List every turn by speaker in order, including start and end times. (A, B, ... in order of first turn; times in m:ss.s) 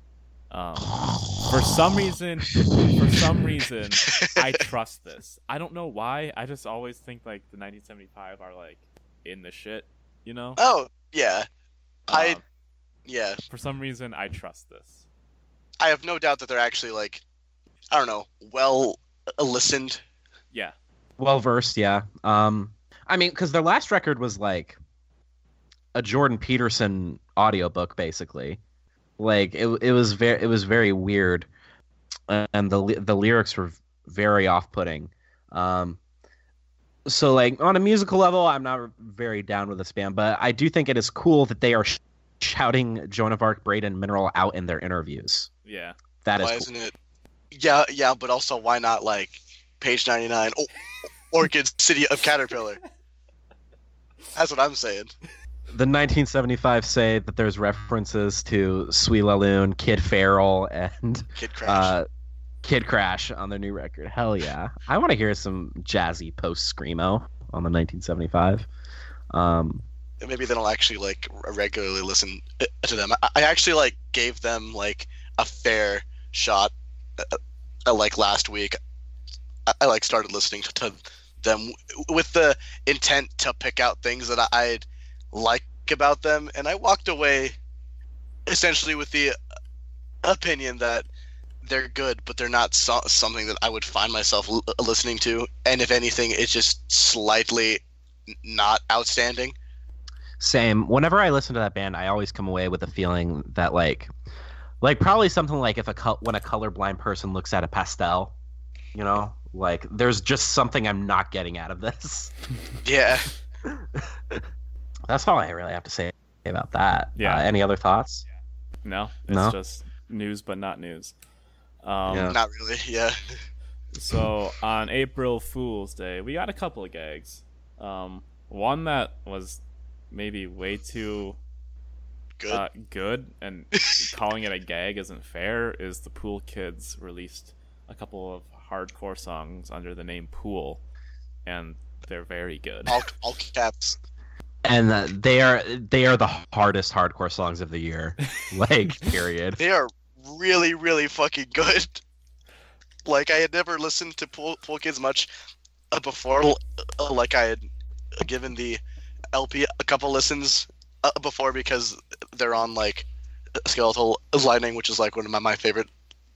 0:00.5-0:10.6 A
0:04.1-0:04.4 B
0:10.6-0:11.5 B
0:12.1-0:12.4 A
0:12.1-0:12.4 B
0:13.1-0:13.4 B
0:13.5-0:15.0 A
0:15.8-0:17.2 B
0:17.9-0:20.0 B
0:21.2-0:24.8 C
0:26.0-0:28.6 C
0:29.2-0:31.5 C
0:32.3-0:36.0 C
0:37.1-0:45.5 C
0:45.6-0:46.0 A
0:46.2-0:46.7 C
0:46.4-0:47.0 B
0:47.5-0:50.7 B
0:51.3-0:52.8 B
0:54.4-0:55.1 B
0:55.7-1:02.1 C
1:01.4-1:02.0 B
1:02.6-1:08.7 C
1:09.3-1:09.8 C
1:10.2-1:18.8 B
1:19.7-1:27.6 B
1:28.5-1:29.4 B
1:30.2-1:31.1 B
1:31.6-1:37.8 B
1:38.4-1:39.6 B
1:40.4-1:44.1 C
1:44.8-1:48.3 C
1:49.0-1:52.3 C
1:52.8-1:53.3 B
1:53.7-1:54.4 C
1:55.1-1:58.2 C
1:57.2-1:57.5 A
1:58.8-2:01.1 A
1:59.3-1:59.6 C
2:01.8-2:02.4 A
2:02.1-2:02.4 C
2:02.3-2:03.2 B
2:03.9-2:11.4 A
2:12.5-2:20.8 A
2:21.5-2:23.0 A
2:22.9-2:24.0 B
2:24.6-2:29.6 C
2:29.6-2:32.0 B
2:33.0-2:35.3 B
2:35.9-2:38.8 B
2:39.3-2:43.1 B
2:43.6-2:45.9 B